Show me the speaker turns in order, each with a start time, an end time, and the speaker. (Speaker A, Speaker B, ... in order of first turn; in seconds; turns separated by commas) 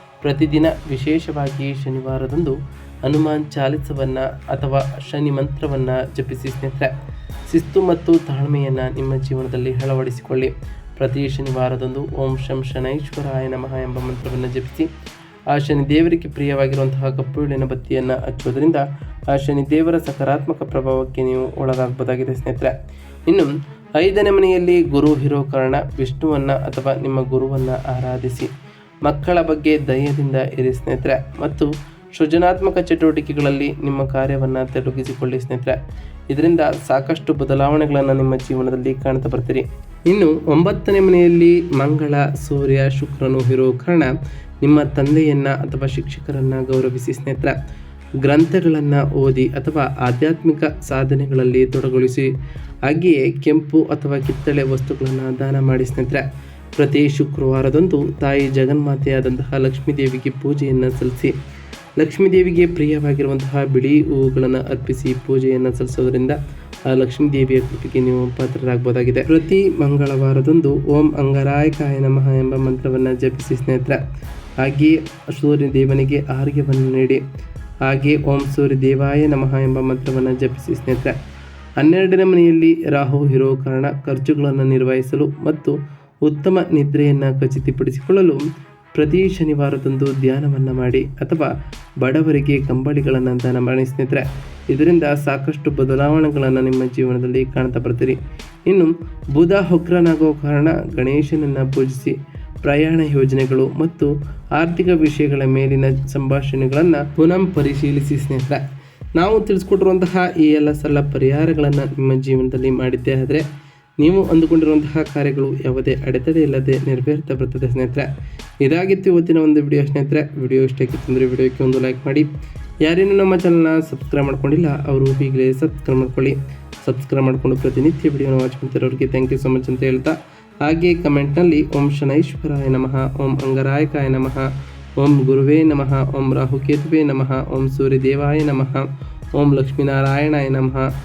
Speaker A: 0.2-2.5, Speaker A: 3.0-6.9, Speaker A: 7.5-14.9, Speaker A: 15.5-22.7, Speaker A: 23.3-28.5, Speaker A: 29.0-35.8, Speaker A: 36.3-47.5, Speaker A: 48.2-52.3, Speaker A: 52.9-56.2, Speaker A: 56.8-61.3, Speaker A: 62.0-66.4, Speaker A: 66.9-74.0, Speaker A: 74.6-77.2, Speaker A: 77.8-81.2, Speaker A: 81.8-88.4, Speaker A: 88.9-91.5, Speaker A: 92.0-108.6, Speaker A: 109.2-113.4, Speaker A: 114.0-118.1, Speaker A: 118.6-122.3, Speaker A: 122.8-140.9